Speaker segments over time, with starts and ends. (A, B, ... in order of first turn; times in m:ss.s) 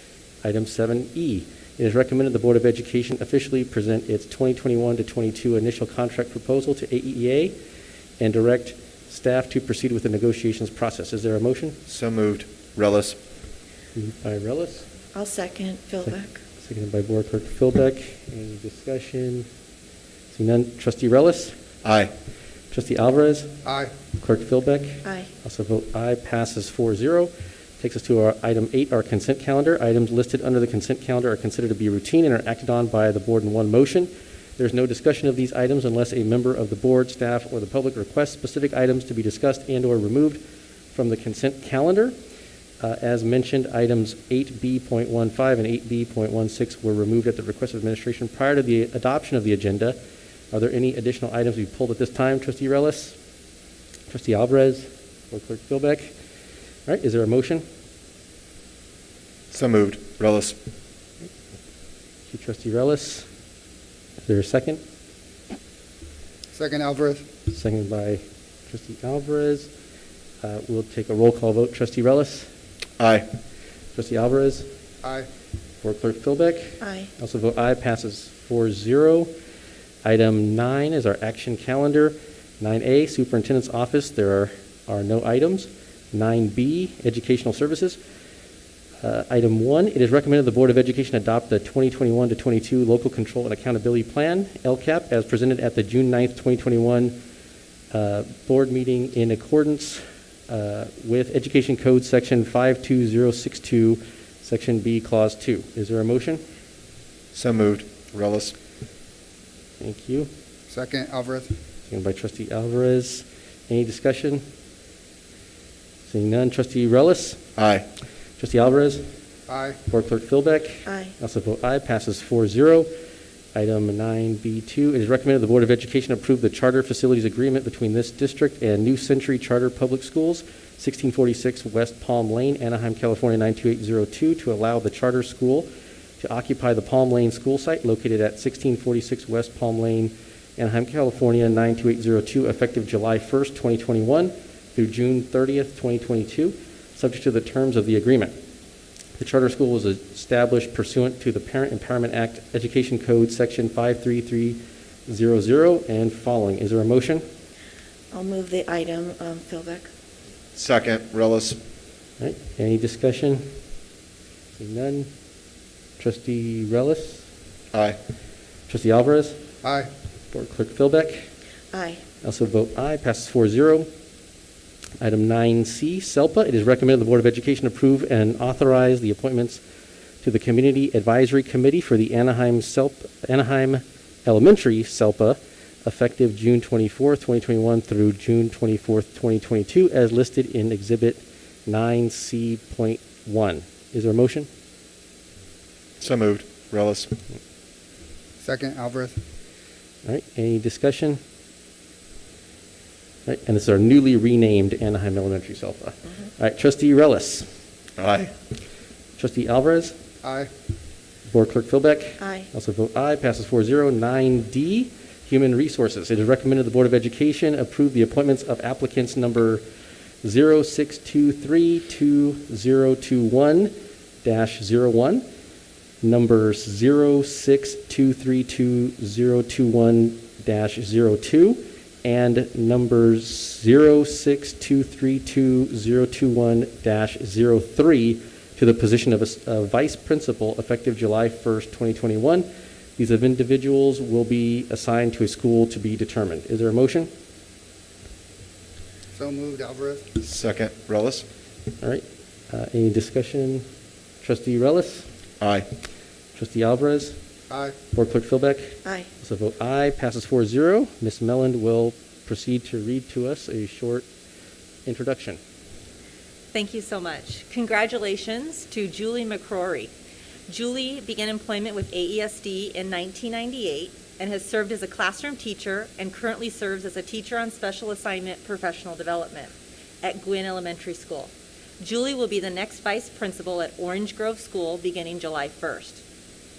0:00.4-0:07.6 A
0:08.2-0:11.8 A
0:11.9-0:13.2 B
0:14.0-0:14.9 A
0:15.1-0:16.4 C
0:16.0-0:19.5 A
0:20.3-0:21.6 A
0:21.8-0:22.1 B
0:22.7-0:23.6 A
0:23.6-0:23.9 D
0:24.2-0:40.4 A
0:40.9-0:42.2 A
0:42.8-0:50.0 A
0:50.5-0:53.2 A
0:54.1-0:56.1 A
0:56.9-0:57.6 A
0:59.5-1:00.6 B
1:02.3-1:03.3 A
1:04.2-1:04.8 A
1:06.5-1:07.2 D
1:07.5-1:09.7 A
1:10.4-1:12.5 A
1:13.0-1:13.3 B
1:13.9-1:14.7 A
1:15.0-1:15.3 D
1:15.8-1:19.3 A
1:16.8-1:17.1 C
1:20.0-1:28.0 A
1:29.0-1:37.2 A
1:37.9-1:46.4 A
1:47.3-1:48.6 B
1:49.8-1:50.3 A
1:50.7-1:51.5 D
1:51.9-1:54.4 A
1:56.1-1:57.4 A
1:57.6-1:57.9 B
1:58.4-1:59.1 A
1:59.5-1:59.8 D
1:59.9-2:02.9 A
2:00.9-2:01.1 C
2:03.5-2:15.7 A
2:16.2-2:28.4 A
2:29.2-2:37.2 A
2:38.1-2:39.9 C
2:40.6-2:41.6 B
2:42.2-2:43.5 A
2:44.6-2:45.1 A
2:46.0-2:47.3 A
2:47.7-2:48.0 B
2:48.7-2:49.4 A
2:49.6-2:49.9 D
2:50.3-2:51.3 A
2:51.7-2:52.0 C
2:52.2-2:53.9 A
2:55.0-2:59.6 A
3:00.2-3:14.5 A
3:16.0-3:17.2 B
3:18.4-3:19.2 D
3:20.0-3:21.2 A
3:23.3-3:27.5 A
3:28.0-3:28.3 B
3:29.2-3:30.0 A
3:30.2-3:30.5 D
3:31.3-3:39.6 A
3:32.2-3:32.5 C
3:40.2-3:45.2 A
3:46.0-4:07.1 A
4:09.1-4:10.2 D
4:10.2-4:11.3 B
4:11.8-4:13.7 A
4:14.2-4:15.1 A
4:15.4-4:15.7 B
4:16.4-4:17.2 A
4:17.5-4:17.8 D
4:17.9-4:24.1 A
4:24.9-4:25.4 A
4:26.5-4:29.9 E
4:30.5-4:46.0 E